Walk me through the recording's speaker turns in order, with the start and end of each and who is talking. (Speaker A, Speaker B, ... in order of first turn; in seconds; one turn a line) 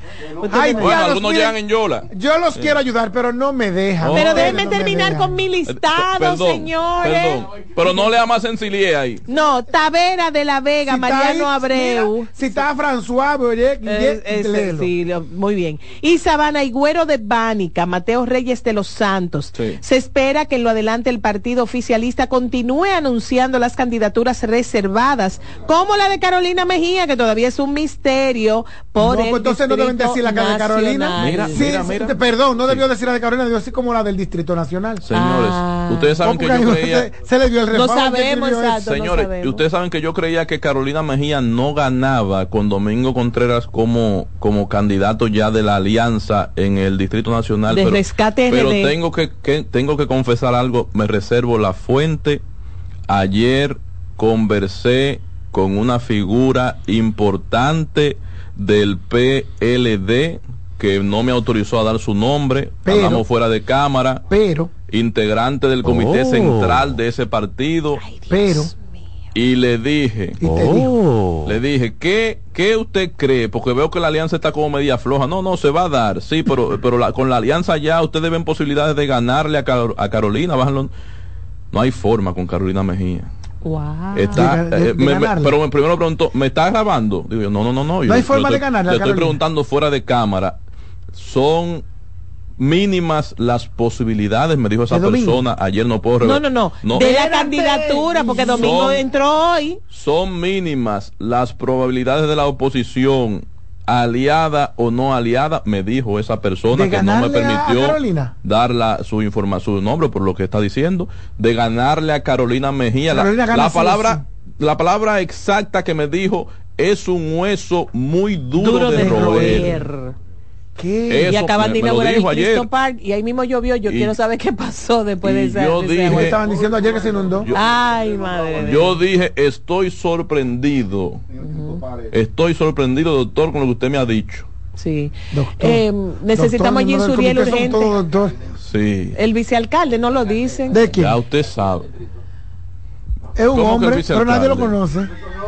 Speaker A: 0.4-1.0
Speaker B: 0.5-1.6
Speaker C: 0.7-2.8
Speaker B: 2.1-5.4
Speaker C: 4.0-4.7
Speaker A: 4.1-7.4
Speaker C: 5.7-9.2
Speaker A: 9.3-12.3
Speaker B: 10.8-14.9
Speaker A: 13.8-31.6
Speaker C: 19.5-19.8
Speaker B: 29.0-35.0
Speaker C: 31.2-32.8
Speaker C: 35.0-37.1
Speaker A: 35.1-36.1
Speaker B: 36.2-38.8
Speaker A: 37.7-39.6
Speaker C: 38.7-52.4
Speaker A: 47.7-48.9
Speaker C: 53.1-64.2
Speaker B: 62.9-63.2
Speaker B: 64.3-64.7
Speaker C: 64.9-68.0
Speaker A: 68.2-68.5
Speaker B: 68.3-68.7
Speaker C: 69.3-70.4
Speaker B: 70.4-70.9
Speaker C: 71.4-80.9
Speaker C: 81.7-83.3
Speaker A: 83.6-84.5
Speaker C: 84.1-90.6
Speaker B: 84.3-85.5
Speaker B: 88.1-89.4
Speaker C: 91.1-91.8
Speaker C: 92.6-97.3
Speaker B: 94.9-95.4
Speaker A: 96.2-99.8
Speaker B: 97.0-99.0
Speaker C: 98.5-99.0
Speaker C: 99.9-119.8
Speaker B: 106.7-108.3
Speaker B: 113.1-114.2
Speaker A: 118.6-120.1
Speaker B: 118.9-119.8
Speaker B: 120.8-121.3
Speaker C: 121.1-122.7
Speaker A: 121.3-126.3
Speaker C: 123.9-124.1
Speaker C: 125.2-126.4
Speaker B: 126.1-127.5
Speaker A: 127.5-128.9
Speaker C: 128.6-131.2
Speaker A: 131.4-131.8
Speaker C: 132.1-134.5
Speaker A: 134.8-137.9
Speaker B: 135.3-138.4
Speaker C: 138.6-139.2
Speaker A: 139.1-140.9
Speaker B: 140.7-141.2
Speaker C: 140.9-141.9
Speaker B: 143.3-145.1
Speaker C: 143.5-144.8